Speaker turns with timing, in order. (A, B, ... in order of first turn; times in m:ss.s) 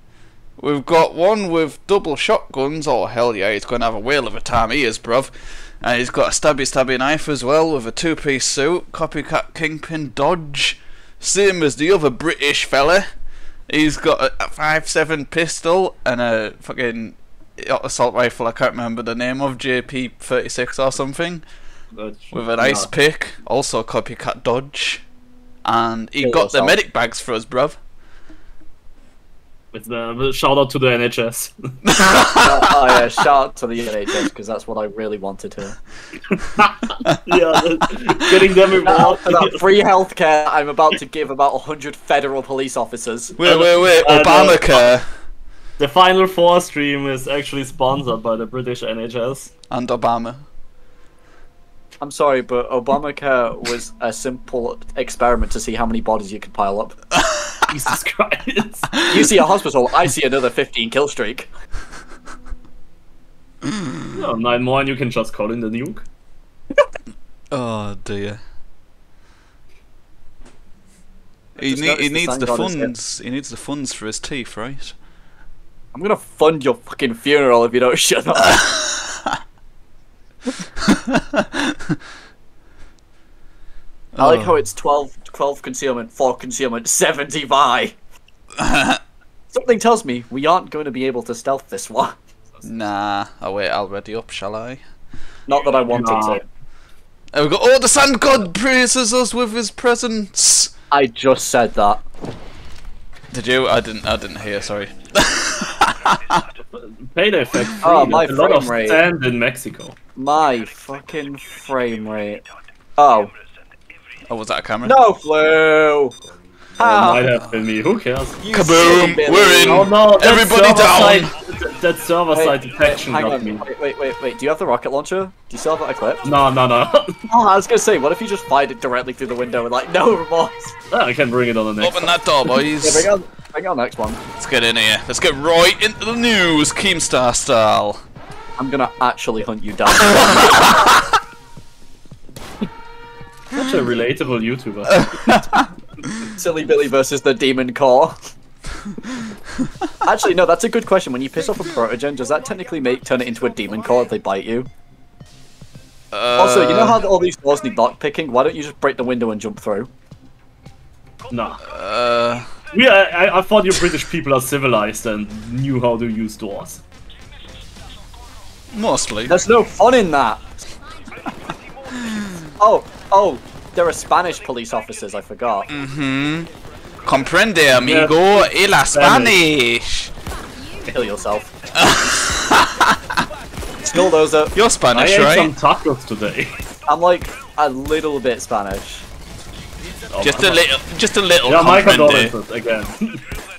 0:00.6-0:13.1 A
0:13.7-0:21.4 A
0:22.0-0:22.6 B
0:22.3-0:25.0 A
0:25.6-0:27.8 A
0:26.2-0:26.8 C
0:29.7-0:31.7 B
0:31.8-0:33.0 A
0:32.3-0:35.8 C
0:36.3-0:39.6 B
0:38.8-0:43.4 C
0:43.4-0:45.1 A
0:43.4-0:44.8 B
0:45.8-0:49.5 B
0:49.7-0:50.4 A
0:52.0-0:57.0 C
0:57.2-0:57.6 A
0:57.7-0:58.9 B
0:59.0-1:01.5 C
1:03.6-1:04.0 A
1:04.1-1:06.0 B
1:07.5-1:08.4 A
1:11.6-1:12.9 C
1:11.6-1:14.9 A
1:15.9-1:18.6 C
1:18.6-1:19.4 A
1:20.8-1:22.0 A
1:24.1-1:24.6 A
1:24.2-1:27.9 C
1:28.6-1:29.0 A
1:29.5-1:32.2 C
1:32.6-1:34.8 A
1:35.5-1:36.4 C
1:35.9-1:36.4 B
1:37.3-1:40.7 A
1:40.9-1:42.0 C
1:43.3-1:46.4 A
1:46.7-1:49.9 B
1:47.8-1:49.0 C
1:50.2-1:52.4 C
1:53.0-1:53.3 C
1:54.3-1:55.0 A
1:54.8-1:56.2 C
1:56.8-1:57.3 C
1:56.8-1:58.4 B
1:58.4-1:59.9 C
1:58.5-2:01.3 A
1:59.6-2:03.6 B
2:02.3-2:06.2 C
2:06.2-2:07.2 B
2:07.3-2:10.7 C
2:10.9-2:12.2 B
2:11.8-2:13.1 A
2:12.6-2:14.2 C
2:14.4-2:18.0 A
2:18.6-2:20.8 C
2:20.0-2:21.0 A
2:23.5-2:25.1 B
2:24.9-2:25.7 A
2:26.4-2:28.2 C
2:30.0-2:34.7 C
2:36.1-2:37.0 A
2:36.4-2:39.9 C
2:41.3-2:41.6 B
2:41.6-2:42.5 A
2:42.7-2:46.8 B
2:48.7-2:49.4 A
2:49.2-2:50.5 C
2:52.0-2:52.4 A
2:52.6-2:55.7 C
2:55.7-2:56.5 A
2:57.0-3:00.1 A
2:57.8-2:59.4 B
3:00.9-3:01.5 C
3:01.8-3:03.2 A
3:03.8-3:04.5 C
3:04.5-3:05.5 A
3:04.9-3:06.5 B
3:06.9-3:09.0 C
3:10.1-3:10.7 B
3:10.2-3:12.3 A
3:11.4-3:13.2 B